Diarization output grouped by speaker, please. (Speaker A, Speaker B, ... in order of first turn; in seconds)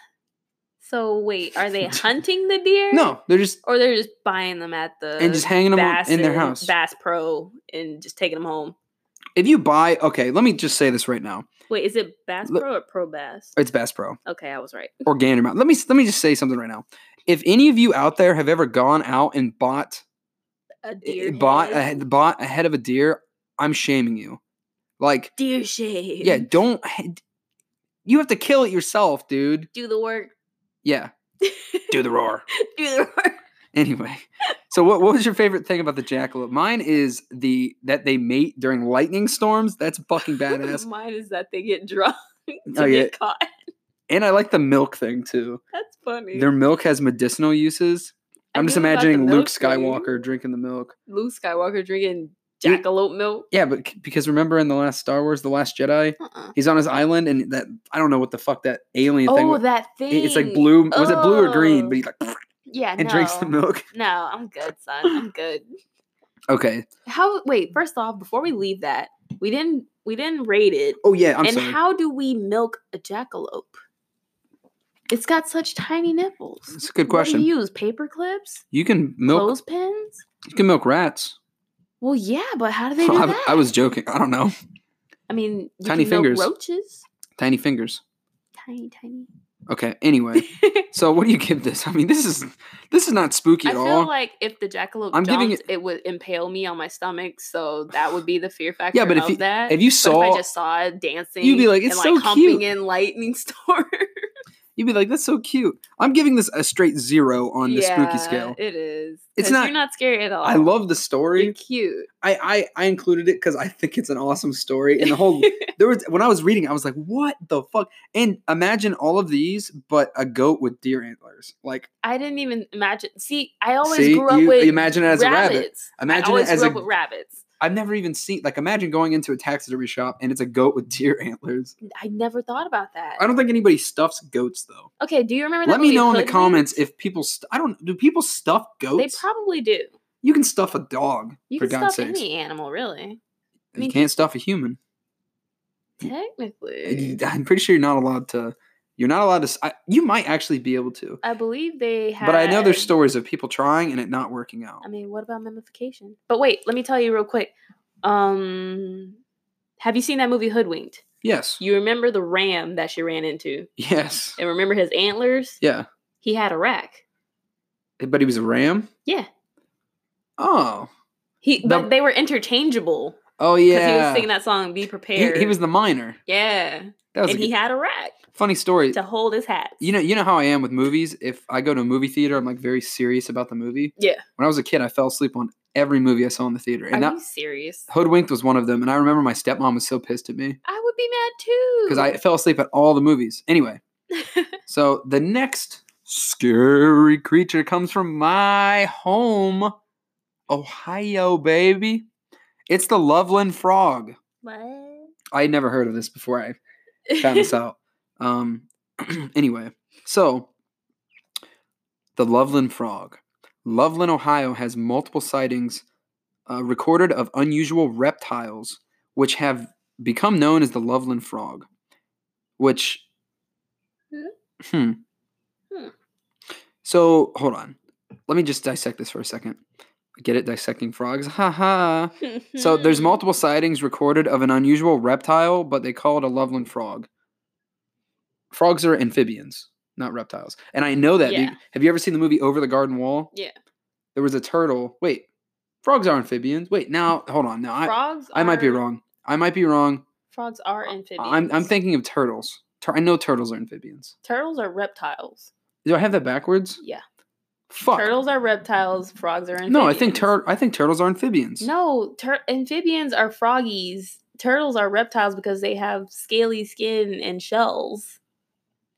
Speaker A: 0.8-8.7, 11.7-13.5, 14.2-15.0, 20.8-21.9, 25.4-26.5, 29.7-30.3, 31.4-31.9, 32.5-33.4, 40.3-43.5, 45.7-46.5, 48.5-50.1, 51.1-53.5, 56.2-56.5, 59.3-62.0, 62.7-65.6, 67.0-73.8, 75.1-78.6, 79.3-80.2, 82.0-83.7, 85.3-87.0, 88.6-89.3, 90.3-90.8, 93.6-104.0, 107.6-110.8, 111.3-112.1, 115.0-115.7, 122.0-127.4, 131.8-133.2, 135.0-136.8, 138.9-139.9, 141.5-143.2, 143.8-144.3, 146.0-147.2, 151.2-152.9, 154.8-157.5, 158.0-159.2, 159.8-161.0, 161.6-163.7, 164.4-165.6, 166.2-167.0, 171.4-175.6, 176.3-178.2, 178.9-179.9, 184.0-184.2, 186.9-187.9, 190.6-192.2, 194.1-194.5, 204.4-205.1, 207.1-207.5, 232.2-233.2, 241.2-241.6, 247.8-248.8, 250.3-251.7, 254.2-255.5, 257.9-260.3, 261.6-268.2
Speaker B: 2.9-3.6, 5.2-6.7, 9.3-11.5, 13.6-14.2, 15.1-20.0, 21.0-24.4, 25.0-25.3, 26.2-27.2, 28.0-29.7, 30.8-31.1, 31.9-32.4, 33.7-40.9, 42.7-43.1, 44.1-45.6, 46.3-50.9, 53.5-62.4, 63.0-63.9, 66.5-66.9, 71.0-71.8, 76.7-77.5, 78.7-79.5, 80.5-81.3, 83.0-84.5, 85.8-86.5, 87.4-88.0, 89.7-94.1, 95.1-95.6, 98.9-100.4, 101.4-102.6, 104.8-108.6, 109.4-109.7, 110.4-111.5, 112.2-121.9, 123.8-126.8, 127.6-131.7, 133.2-134.9, 135.6-139.2, 140.2-142.2, 143.7-144.8, 146.8-151.2, 152.2-154.8, 161.2-161.6, 163.8-164.4, 165.6-165.9, 168.0-168.9, 170.4-170.9, 171.6-171.9, 173.4-174.3, 175.1-176.2, 177.1-177.5, 178.3-179.0, 179.8-187.2, 187.9-190.6, 191.9-193.8, 194.7-199.7, 200.5-202.1, 202.7-204.2, 205.3-206.6, 207.2-210.5, 212.2-215.8, 216.5-221.7, 222.6-223.0, 224.6-225.0, 226.8-227.8, 228.3-229.6, 230.2-237.1, 238.5-243.3, 244.1-245.2, 245.8-250.0, 251.2-254.1, 255.8-256.8, 257.7-258.1, 259.7-261.7